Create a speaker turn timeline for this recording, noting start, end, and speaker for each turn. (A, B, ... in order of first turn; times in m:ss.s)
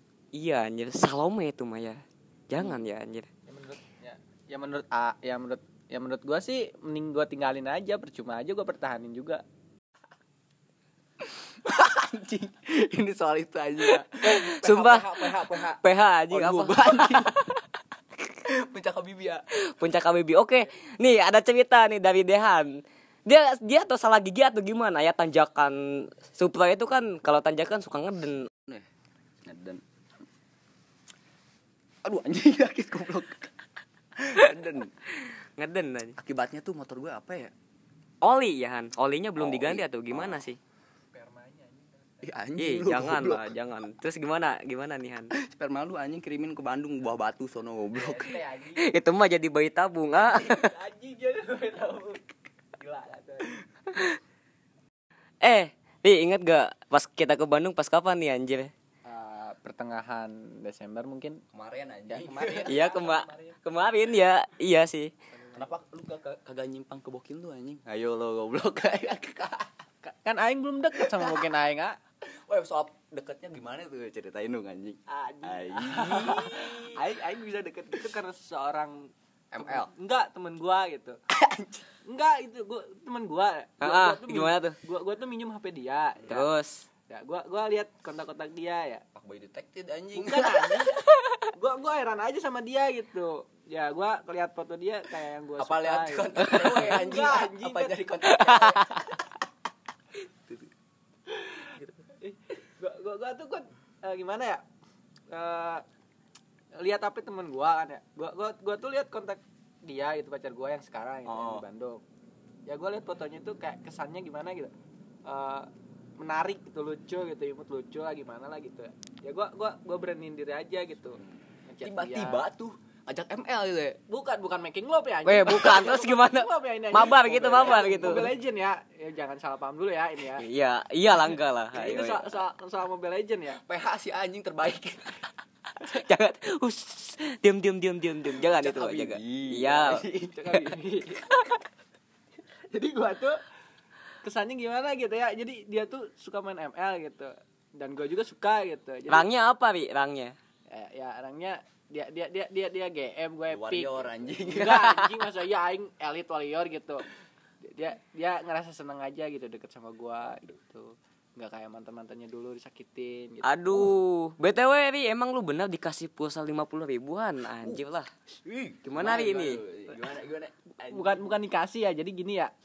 0:00.3-0:03.3 A
0:03.5-0:09.4 B
0:11.2-0:17.6 C
0:14.2-0:17.6 A
0:18.4-0:19.4 C
0:19.6-0:28.5 A
0:28.5-0:28.9 C
0:29.4-0:29.8 C
0:32.0-0:33.5 C
0:34.2-0:34.9 C
0:35.2-0:36.2 A
0:36.2-0:37.5 C
0:38.2-0:40.6 A
0:39.4-0:40.4 C
0:41.1-0:42.2 B
0:42.2-0:43.6 C
0:42.6-0:45.3 A
0:45.3-0:48.4 C
0:48.0-0:48.9 B
0:48.8-0:50.7 A
0:50.5-0:52.2 B
0:52.8-0:53.6 B
0:55.4-0:58.7 A
0:59.1-1:01.4 B
1:01.5-1:02.9 C
1:02.1-1:03.5 B
1:02.6-1:05.1 A
1:05.5-1:09.7 C
1:10.0-1:12.0 B
1:11.0-1:11.4 C
1:12.3-1:18.1 C
1:15.1-1:21.2 B
1:19.5-1:19.9 C
1:21.3-1:21.9 C
1:22.1-1:26.5 B
1:23.8-1:24.8 A
1:26.3-1:26.9 A
1:27.1-1:29.0 B
1:29.1-1:31.0 C
1:30.2-1:31.0 B
1:31.5-1:38.0 B
1:35.6-1:39.2 C
1:42.2-1:44.6 B
1:45.3-1:45.8 B
1:46.8-1:52.0 B
1:51.2-1:51.6 C
1:52.6-1:54.7 B
1:55.2-2:02.4 B
2:01.2-2:04.0 C
2:04.1-2:10.4 B
2:05.2-2:08.3 A
2:10.3-2:12.3 A
2:11.8-2:13.6 B
2:13.5-2:15.3 C
2:15.8-2:20.0 A
2:18.3-2:20.8 C
2:20.3-2:21.4 B
2:22.7-2:23.4 B
2:24.2-2:29.2 B
2:29.1-2:30.4 A
2:30.7-2:37.0 B
2:33.5-2:34.9 C
2:37.6-2:43.4 B
2:43.4-2:48.1 A
2:48.3-2:51.4 C
2:48.8-2:49.6 A
2:50.9-2:52.5 B